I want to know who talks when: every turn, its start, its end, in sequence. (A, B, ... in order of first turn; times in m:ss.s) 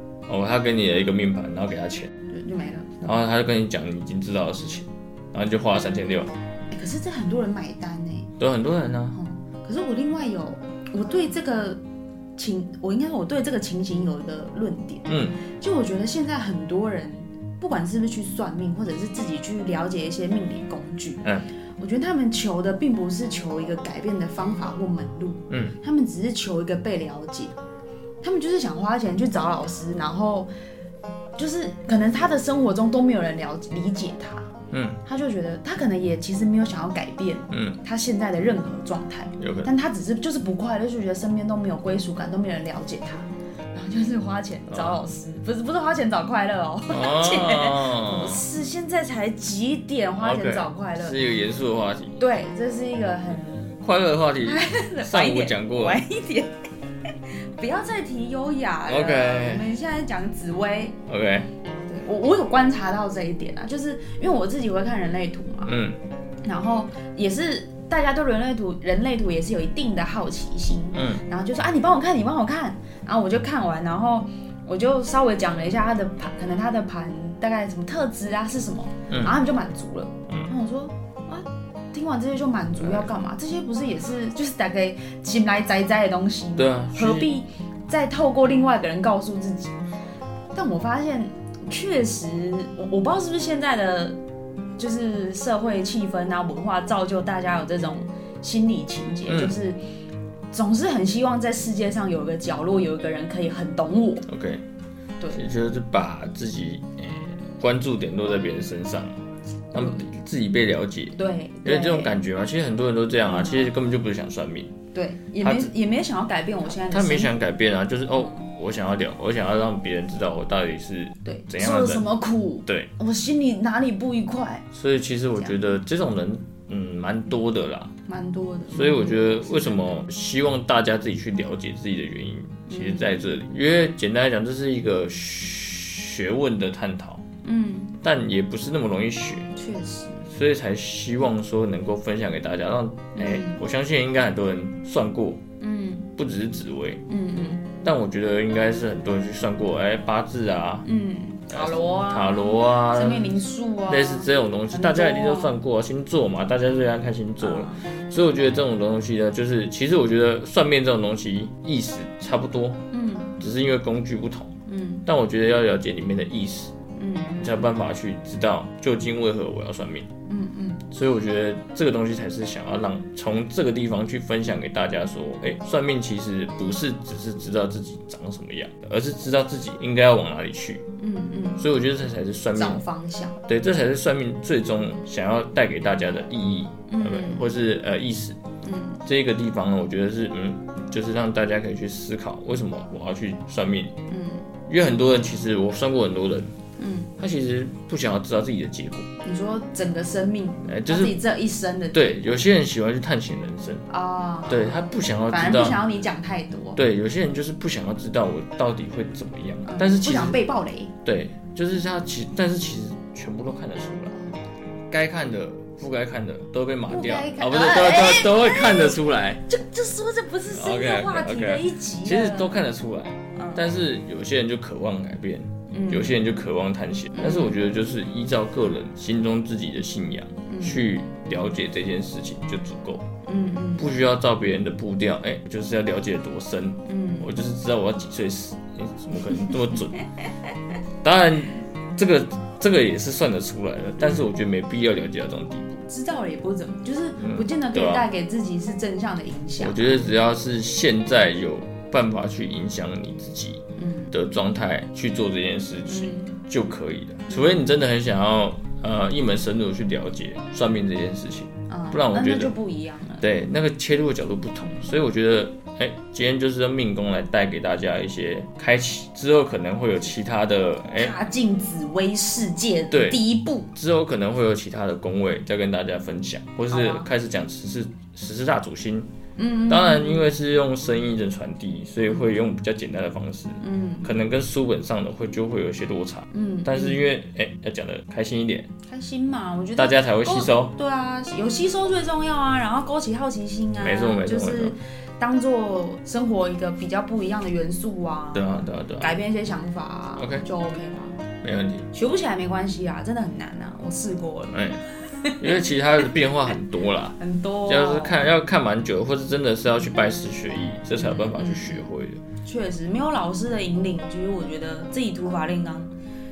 0:00.3-0:02.1 A
0:02.3-0:03.1 B
0:03.0-0:06.3 A
0:06.7-0:08.3 B
0:08.4-0:09.2 A
0:09.1-0:11.8 B
0:12.4-0:21.2 B
0:15.1-0:15.4 A
0:21.8-0:27.6 B
0:25.5-0:25.8 A
0:28.2-0:30.5 B
0:31.4-0:34.5 B
0:34.7-0:35.0 A
0:35.0-0:51.2 B
0:37.5-0:37.8 A
0:39.4-0:39.7 A
0:44.7-0:45.0 A
0:46.9-0:48.4 A
0:50.2-0:52.2 A
0:52.2-0:53.8 B
0:53.8-0:56.0 A
0:54.4-0:56.5 B
0:57.1-1:01.0 B
0:58.9-0:59.7 A
1:01.1-1:01.5 A
1:01.9-1:05.8 B
1:05.6-1:06.0 A
1:06.4-1:29.7 B
1:10.9-1:11.2 A
1:19.1-1:19.3 A
1:22.8-1:23.1 A
1:26.6-1:27.3 A
1:30.5-1:34.2 B
1:34.8-1:39.8 B
1:39.3-1:39.6 A
1:40.5-1:44.3 B
1:44.3-1:44.6 A
1:45.3-1:49.2 A
1:49.7-1:54.8 A
1:51.1-1:52.2 B
1:53.2-1:53.7 B
1:54.9-1:57.3 B
1:55.4-1:55.7 A
1:56.7-2:02.1 A
2:01.2-2:04.6 B
2:04.7-2:07.9 A
2:05.4-2:05.6 B
2:08.0-2:10.0 B
2:08.7-2:17.2 A
2:12.7-2:13.2 B
2:17.4-2:18.0 B
2:18.0-2:19.5 A
2:19.5-2:20.2 B
2:20.2-2:25.4 A
2:23.2-2:23.6 B
2:25.6-2:26.1 B
2:26.2-2:27.0 A
2:27.1-2:27.7 B
2:27.8-2:30.9 A
2:30.8-2:35.6 B
2:31.5-2:42.8 A
2:37.4-2:37.9 B
2:42.9-2:43.4 B
2:43.4-2:44.5 A
2:44.7-2:45.0 B
2:45.0-2:46.7 A
2:46.9-2:47.6 B
2:47.4-2:50.1 A
2:50.3-2:50.9 B
2:50.9-3:00.8 A
3:01.0-3:01.6 B
3:01.6-3:02.8 A
3:02.6-3:03.4 B
3:03.4-3:08.4 A
3:06.9-3:07.5 B
3:08.6-3:09.0 B
3:09.0-3:14.0 A
3:14.1-3:14.5 B
3:14.7-3:16.5 A
3:16.8-3:17.1 B
3:17.2-3:19.1 A
3:19.2-3:22.2 B
3:20.6-3:21.2 A
3:21.9-3:23.9 A
3:23.9-3:26.8 B
3:24.5-3:25.8 A
3:26.8-3:30.4 A
3:29.6-3:30.9 B
3:31.0-3:34.1 A
3:34.1-3:34.5 B
3:34.9-3:39.5 A
3:36.9-3:42.6 B
3:40.5-3:53.1 A
3:43.4-3:43.6 B
3:45.7-3:46.2 B
3:47.1-3:47.6 B
3:50.5-3:50.8 B
3:53.2-3:54.0 B
3:53.8-4:00.1 A
3:56.8-3:57.3 B
4:01.0-4:05.7 A
4:04.0-4:04.2 B
4:05.8-4:10.1 B
4:07.2-4:08.0 A
4:09.6-4:22.5 A
4:13.8-4:14.1 B
4:15.9-4:16.4 B
4:21.7-4:23.2 B
4:23.2-4:31.1 A
4:30.9-4:33.7 B
4:32.9-4:33.2 A
4:33.7-4:39.1 A
4:36.7-4:37.1 B
4:39.4-4:40.3 B
4:39.7-4:48.7 A
4:42.1-4:42.3 B
4:43.6-4:44.1 B
4:46.3-4:47.0 B
4:48.9-5:01.2 B
4:49.8-4:50.7 A
4:53.8-4:54.7 A
4:58.3-4:59.1 A
5:00.2-5:00.4 A
5:01.4-5:01.9 A
5:01.9-5:05.6 B
5:04.5-5:04.8 A
5:05.4-5:12.2 A
5:07.2-5:08.2 B
5:11.0-5:11.9 B
5:12.4-5:15.9 B